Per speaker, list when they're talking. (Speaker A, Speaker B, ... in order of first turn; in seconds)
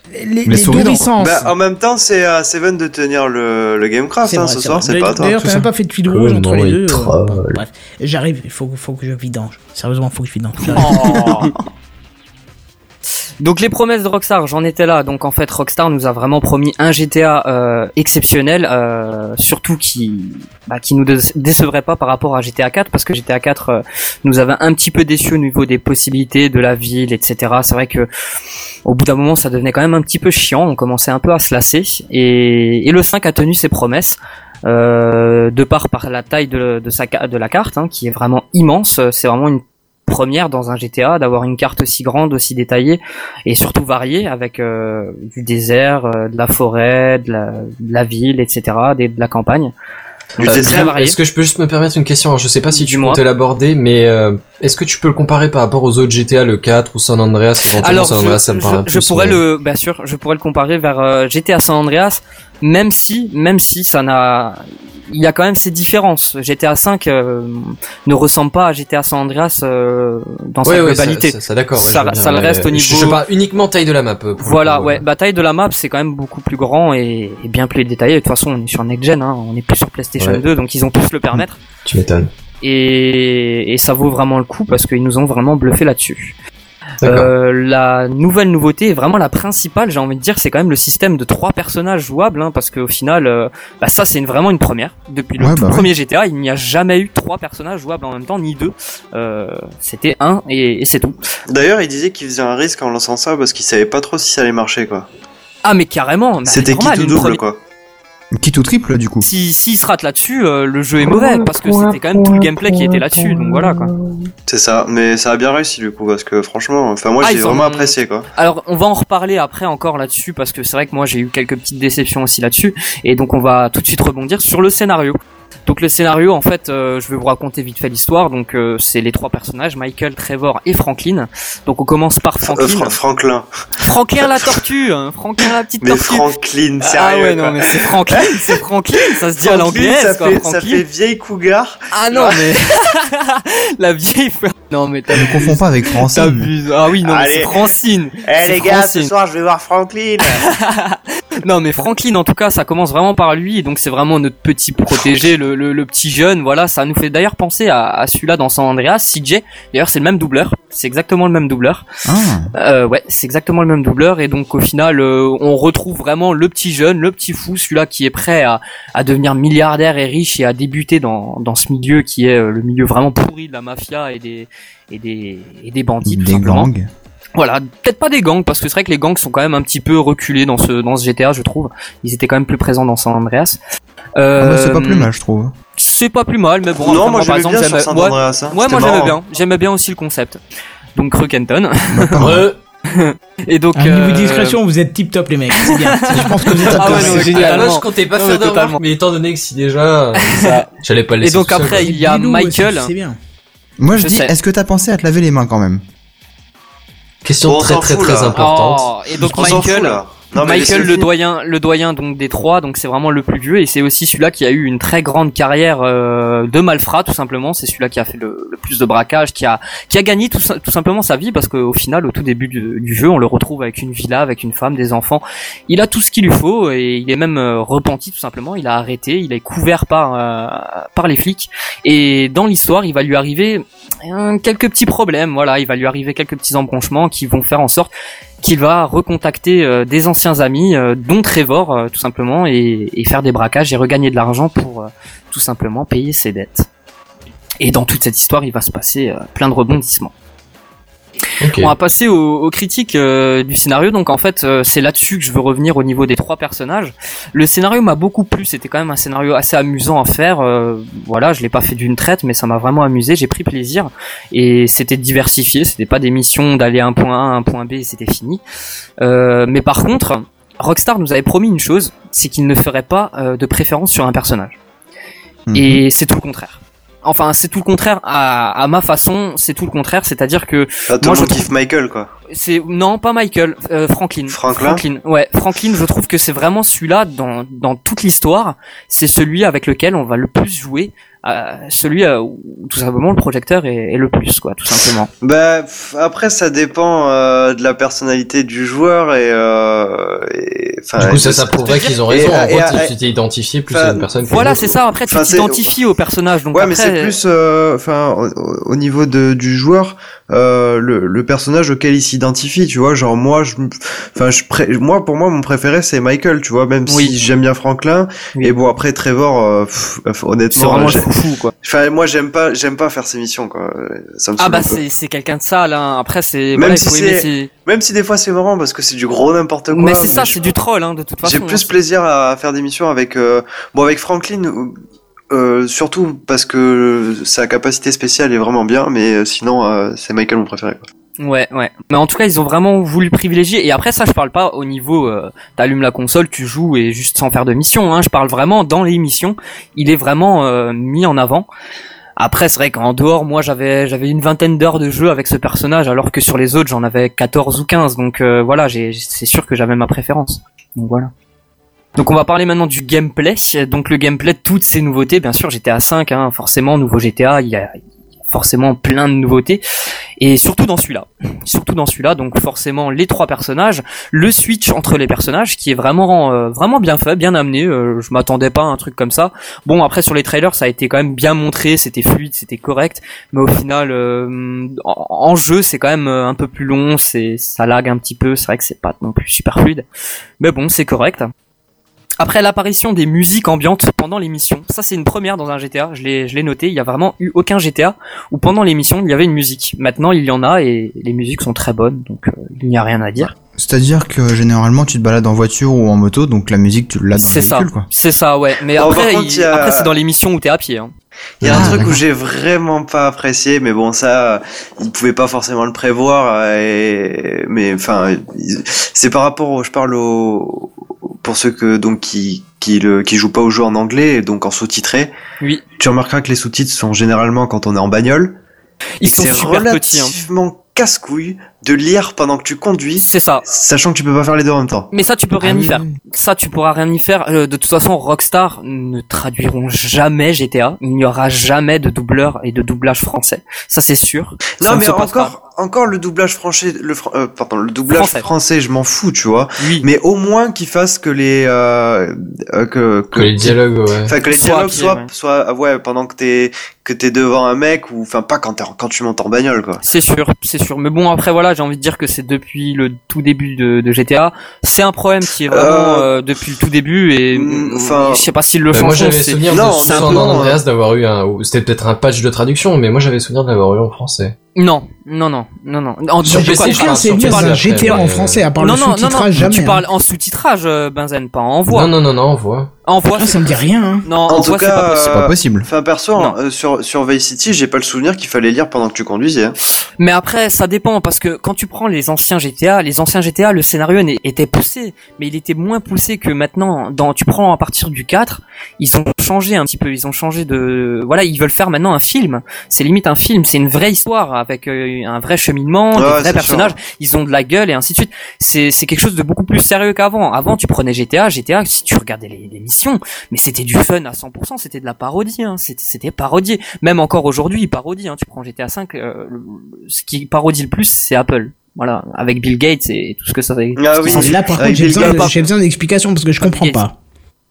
Speaker A: 0.1-1.5, 4.2-11.3, 193.8-197.6, 201.8-203.2, 476.3-479.8, 483.2-484.1, 524.0-526.9
Speaker B: 0.5-1.1, 95.4-95.9, 108.3-109.3, 145.1-146.5, 162.1-162.5, 176.0-176.9, 184.4-185.5, 191.9-192.5, 196.6-197.2, 203.8-205.8, 275.5-275.8, 403.5-407.9, 411.4-411.9, 485.1-485.7
Speaker C: 1.2-5.4, 50.4-50.9, 101.5-105.1, 106.5-107.6, 114.5-118.3, 132.4-133.5, 134.2-134.6, 135.8-142.4, 147.1-147.5, 148.2-150.3, 186.8-189.2, 207.4-208.5, 209.1-211.1, 280.9-282.1, 284.3-284.8, 295.2-302.9, 303.7-305.7, 306.5-321.1, 321.6-324.8, 326.5-330.5, 331.2-334.8, 335.3-340.9, 408.7-409.9, 411.4-425.1, 425.8-428.4, 429.0-434.9, 435.4-435.8, 444.4-459.8, 465.5-466.1, 467.3-468.2, 469.5-470.6, 484.3-489.6, 505.9-506.8, 523.8-525.3
Speaker D: 6.1-7.6, 50.4-59.4, 70.6-75.0, 80.2-80.5, 81.8-82.3, 87.0-87.3, 192.2-192.6, 196.6-201.9, 207.2-208.9, 251.4-251.7, 301.0-304.7, 453.1-454.1, 468.7-474.3, 476.2-478.5, 481.7-482.7
Speaker E: 10.7-11.5, 13.4-28.1, 28.8-49.7, 50.4-51.2, 52.7-53.2, 57.7-73.2, 74.4-81.6, 82.6-86.3, 87.0-101.2, 105.6-107.4, 109.2-114.0, 117.2-133.0, 133.8-136.3, 136.8-140.8, 141.9-149.2, 150.2-161.8, 162.5-176.7, 177.3-183.6, 184.2-185.1, 185.8-190.4, 190.9-192.3, 192.9-194.6, 195.6-198.8, 200.2-200.7, 201.2-202.9, 203.9-204.3, 208.3-237.9, 238.4-246.7, 247.6-250.1, 251.5-268.4, 269.0-274.6, 275.5-281.5, 282.3-295.1, 301.5-302.0, 304.2-307.1, 316.9-317.1, 320.5-321.5, 324.4-327.5, 329.7-331.7, 341.2-351.5, 352.2-361.1, 361.9-367.8, 368.3-369.6, 370.2-389.9, 390.4-391.3, 392.2-403.3, 407.2-410.9, 411.4-412.0, 429.0-430.2, 433.0-433.4, 434.9-445.4, 447.9-448.3, 449.6-449.9, 454.2-455.1, 459.8-470.5, 474.6-478.0, 478.6-481.9, 482.9-485.3, 490.0-525.5, 526.4-526.8